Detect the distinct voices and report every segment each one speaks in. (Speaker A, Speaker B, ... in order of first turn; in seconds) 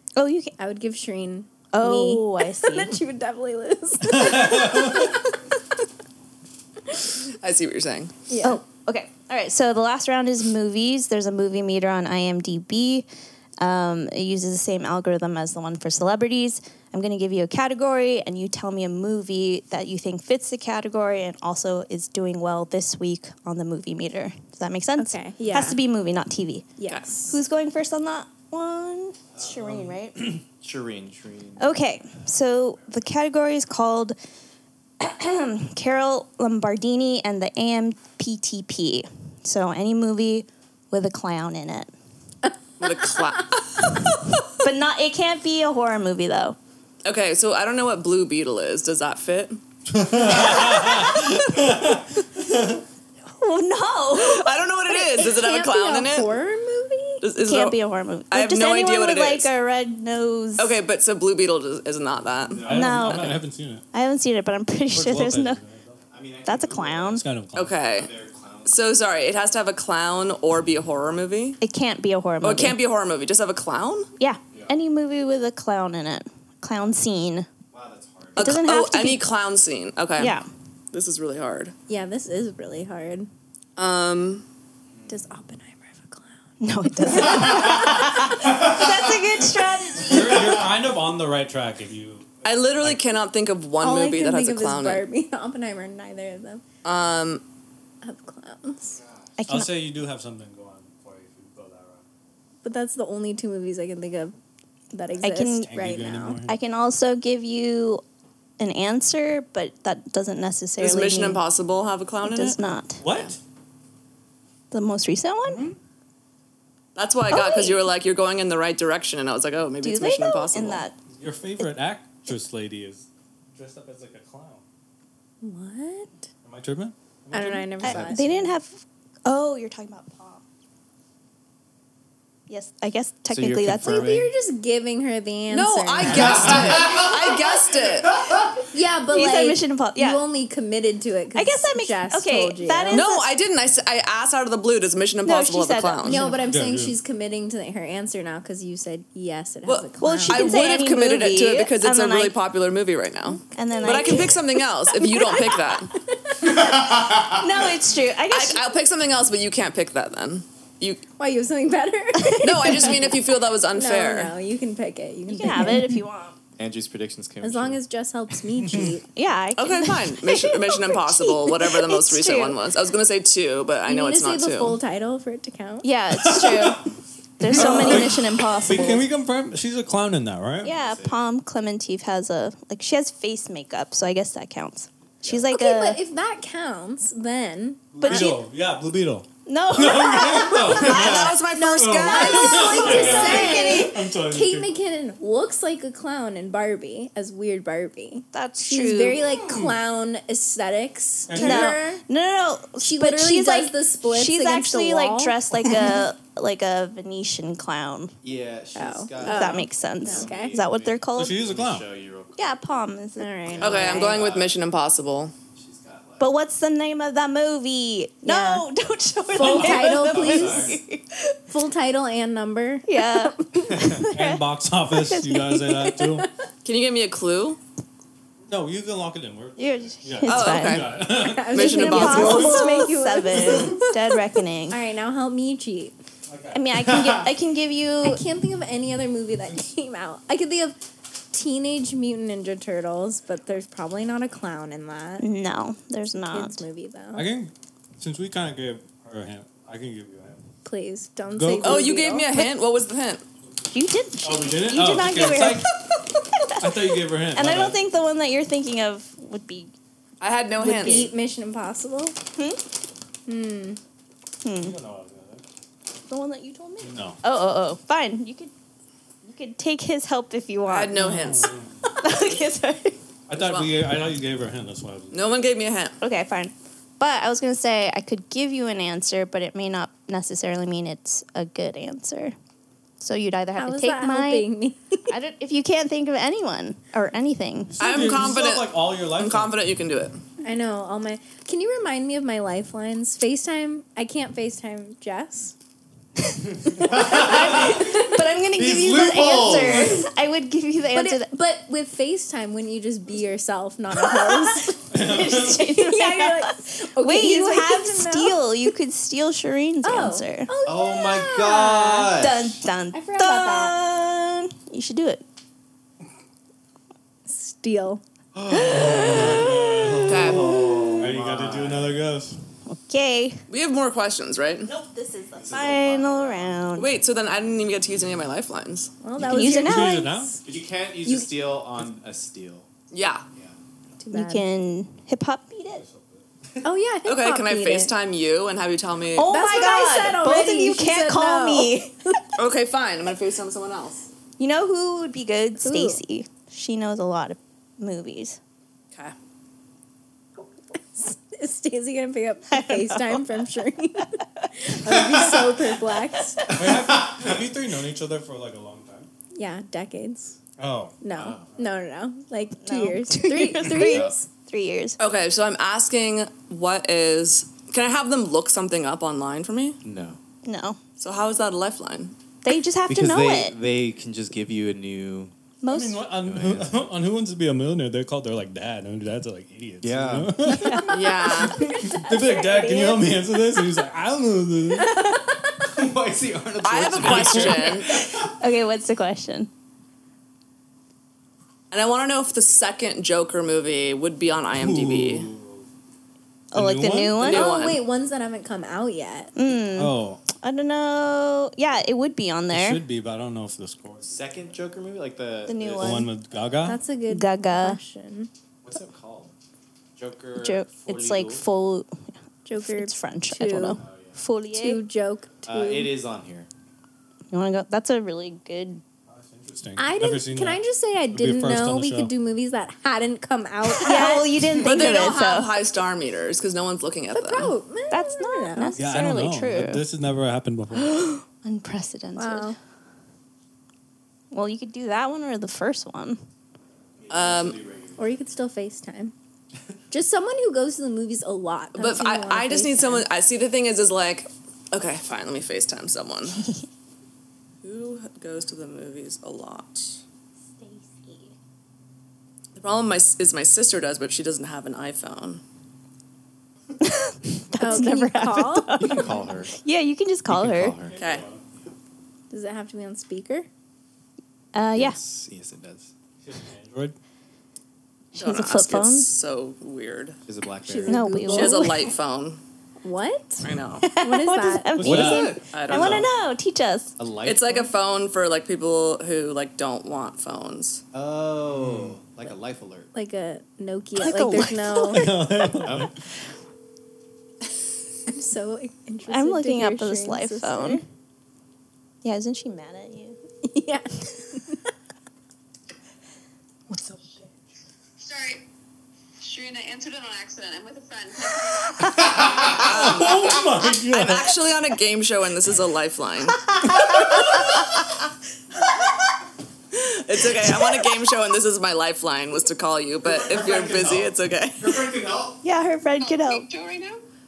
Speaker A: 0.1-0.5, 1.7-3.0, 8.4-13.1, 13.6-26.7, 27.3-30.3, 31.6-34.1, 35.0-41.9, 44.6-46.5, 53.4-54.6, 57.4-60.8, 62.7-63.4, 63.9-65.6, 66.4-67.2, 71.6-72.8, 74.2-77.5, 78.4-79.2, 80.2-80.5, 86.6-90.6, 99.4-99.7, 105.2-105.8, 106.4-108.0, 108.6-111.4, 112.2-113.0, 114.7-115.7, 117.3-117.8, 119.8-121.0, 127.8-130.4, 132.5-134.1, 139.1-140.2, 141.3-143.3, 145.2-146.4, 150.0-152.3, 153.5-155.8, 157.3-158.7, 162.2-162.9, 165.3-166.4, 169.1-172.6, 175.8-176.8, 177.4-179.0, 180.6-186.0, 188.0-188.4, 189.4-193.9, 198.3-199.2, 201.3-208.1, 209.2-211.4, 212.3-213.7, 216.2-221.4, 222.9-224.4, 225.0-226.0, 229.6-230.9, 231.5-234.8, 236.5-238.2, 245.2-246.6, 253.7-259.7, 260.6-261.1, 262.4-262.6, 264.4-264.8, 266.1-268.5, 269.2-271.0, 271.9-273.0, 276.0-282.3, 283.0-284.5, 285.1-288.1, 296.2-301.3, 303.9-310.5, 312.0-315.2, 322.7-323.4, 324.6-326.9, 329.2-330.1, 334.1-335.8, 339.1-342.2, 344.4-348.4, 352.5-353.2, 362.6-365.0, 370.4-370.8, 372.4-373.6, 375.6-376.0, 380.5-381.0, 388.2-389.5, 396.5-397.6, 399.4-402.8, 405.4-406.1, 407.1-407.8, 410.3-412.0, 412.6-414.8, 417.3-418.8, 423.7-425.5, 427.9-429.8, 430.7-432.5, 434.3-436.2, 450.6-451.3, 456.8-460.8, 464.5-465.0, 468.1-469.1, 470.9-471.9, 473.8-476.9, 484.0-485.1, 489.1-490.8, 492.0-493.2, 506.4-507.5, 515.4-516.5
Speaker B: 0.6-5.3, 8.3-8.6, 25.0-25.8, 26.8-27.4, 43.0-43.4, 54.9-57.2, 81.9-83.3, 85.1-86.5, 87.1-87.9, 93.8-96.6, 98.0-99.0, 102.6-104.3, 104.9-106.4, 125.4-126.3, 127.3-128.4, 133.8-136.6, 138.7-143.1, 146.0-150.7, 153.7-154.3, 156.1-156.6, 161.2-166.0, 167.4-169.1, 173.9-175.9, 185.5-188.4, 192.1-202.0, 202.8-206.0, 208.8-210.6, 213.2-214.2, 218.2-218.6, 219.3-220.8, 221.5-223.6, 231.2-234.0, 234.7-235.9, 238.0-240.8, 241.3-245.3, 246.3-247.3, 250.6-252.3, 260.6-262.1, 263.3-263.8, 283.6-285.1, 290.4-295.5, 297.0-298.0, 300.9-308.7, 309.8-312.1, 312.9-313.8, 317.2-318.0, 318.6-319.2, 329.0-330.4, 331.0-331.3, 334.0-334.4, 336.6-337.9, 339.3-342.2, 345.6-346.0, 350.9-356.4, 359.3-360.4, 361.0-364.3, 381.6-382.8, 397.2-399.6, 406.6-408.3, 412.4-413.8, 414.5-415.9, 419.8-424.4, 427.1-428.8, 432.1-432.6, 438.0-439.1, 439.9-443.1, 457.6-459.2, 462.3-463.5, 470.6-471.9, 472.8-474.7, 482.9-485.0, 488.1-490.8, 493.4-494.6
Speaker C: 4.1-5.1, 49.9-52.8, 62.7-63.8, 64.9-66.0, 67.1-67.7, 90.0-93.0, 99.5-102.0, 105.6-106.5, 113.0-113.4, 121.1-124.6, 126.4-128.2, 146.3-146.9, 168.6-168.9, 176.2-176.8, 177.4-180.7, 187.9-194.7, 199.3-199.8, 201.3-201.8, 211.2-211.8, 219.3-220.0, 224.1-226.3, 228.4-232.6, 236.3-236.6, 247.1-250.4, 251.4-251.9, 254.2-255.7, 256.6-257.8, 264.6-265.4, 266.8-267.2, 270.9-271.7, 273.3-275.4, 287.7-289.6, 304.9-305.6, 318.6-322.4, 329.2-330.3, 335.7-336.2, 356.5-359.1, 360.6-360.9, 375.7-381.0, 381.6-384.9, 387.0-387.8, 394.5-395.7, 396.5-397.2, 399.7-400.2, 402.5-404.5, 405.8-406.8, 419.1-422.1, 428.8-431.0, 460.8-461.5, 466.2-466.9, 474.8-476.1, 481.5-482.0, 484.9-486.0, 502.6-504.4
Speaker D: 7.4-8.1, 42.8-44.0, 47.0-49.6, 54.1-56.3, 57.2-57.8, 58.3-59.5, 60.6-63.2, 67.5-68.1, 68.6-71.6, 72.4-74.1, 78.3-80.4, 80.9-81.7, 83.8-84.4, 92.4-95.0, 96.8-97.4, 110.8-113.3, 116.9-120.8, 135.5-138.3, 142.9-146.3, 149.7-155.9, 158.3-161.0, 162.4-164.3, 169.6-174.8, 190.7-193.5, 213.6-215.3, 226.6-227.6, 230.3-230.9, 231.5-232.7, 251.6-253.2, 260.2-261.1, 270.6-271.5, 273.3-273.8, 275.1-276.0, 287.8-290.2, 320.1-320.5, 323.5-324.7, 326.8-328.9, 332.9-333.2, 337.1-339.3, 342.4-344.1, 365.0-369.8, 371.0-372.1, 380.9-381.6, 386.6-387.9, 391.7-395.3, 397.2-397.8, 424.6-427.5, 437.1-437.6, 441.7-446.4, 447.6-450.0, 452.5-455.4, 460.9-461.2, 468.2-470.2, 471.3-472.4, 473.4-473.9, 475.3-476.1, 477.2-480.8, 502.4-506.4, 509.7-514.9
Speaker E: 29.4-31.7, 62.5-63.4, 66.1-67.2, 67.8-68.8, 74.5-74.8, 77.7-78.5, 84.9-85.2, 87.2-89.3, 98.9-99.3, 127.9-128.3, 133.3-134.3, 136.0-138.5, 156.4-157.8, 166.6-167.8, 177.6-178.0, 180.6-181.2, 208.2-212.6, 213.5-214.5, 215.6-216.4, 219.6-220.8, 223.7-224.0, 236.8-237.3, 296.9-300.1, 310.6-312.5, 318.3-322.0, 325.3-326.7, 330.4-332.7, 356.6-357.3, 361.1-361.5, 363.7-364.1, 369.8-370.2, 372.9-375.3, 376.1-376.8, 379.8-380.5, 385.6-388.3, 404.0-406.1, 408.6-409.3, 409.9-411.5, 413.8-414.2, 415.4-416.5, 437.0-438.1, 458.8-459.6, 460.3-460.9, 464.7-465.9, 470.2-471.1, 474.8-476.1, 477.0-477.7, 480.9-482.9, 485.6-485.9, 502.0-502.7, 506.9-507.3, 513.0-515.4
Speaker F: 498.0-498.4, 499.2-502.6, 516.0-517.0